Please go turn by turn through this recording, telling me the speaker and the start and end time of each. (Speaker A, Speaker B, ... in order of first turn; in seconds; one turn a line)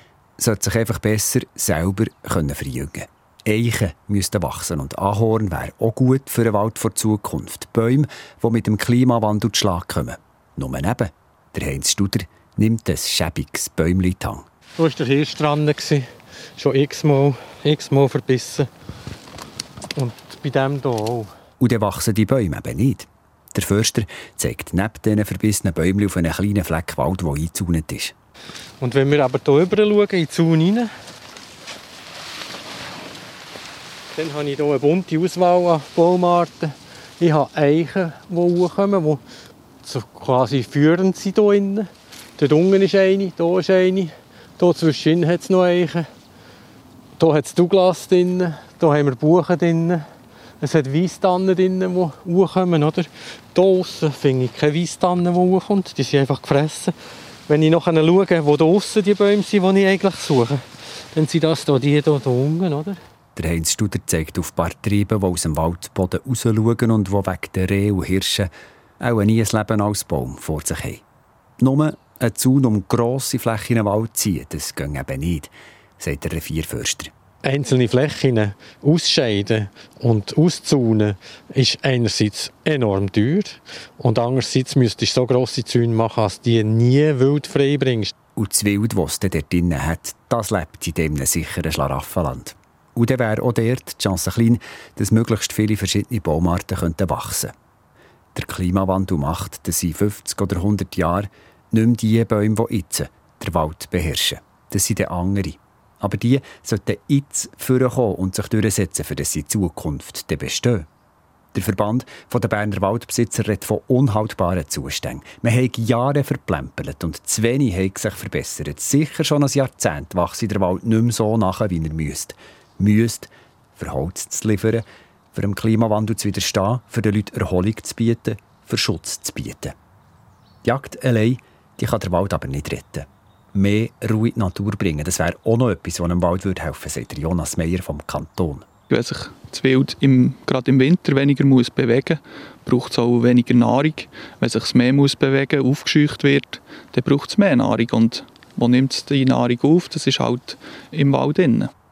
Speaker A: 0.4-14.4
Speaker B: 14.8-16.1
Speaker B: 16.6-18.7
Speaker B: 19.9-21.3
Speaker A: 21.6-28.1
Speaker B: 28.8-30.9
Speaker B: 34.1-39.2
Speaker B: 39.8-46.1
Speaker B: 47.2-50.0
Speaker B: 50.6-56.9
Speaker B: 57.5-63.0
Speaker A: 63.4-71.0
Speaker A: 71.6-77.1
Speaker B: 77.4-88.1
Speaker A: 88.4-97.5
Speaker A: 98.3-110.9
Speaker A: 111.5-129.7
Speaker A: 130.6-138.7
Speaker C: 138.9-151.7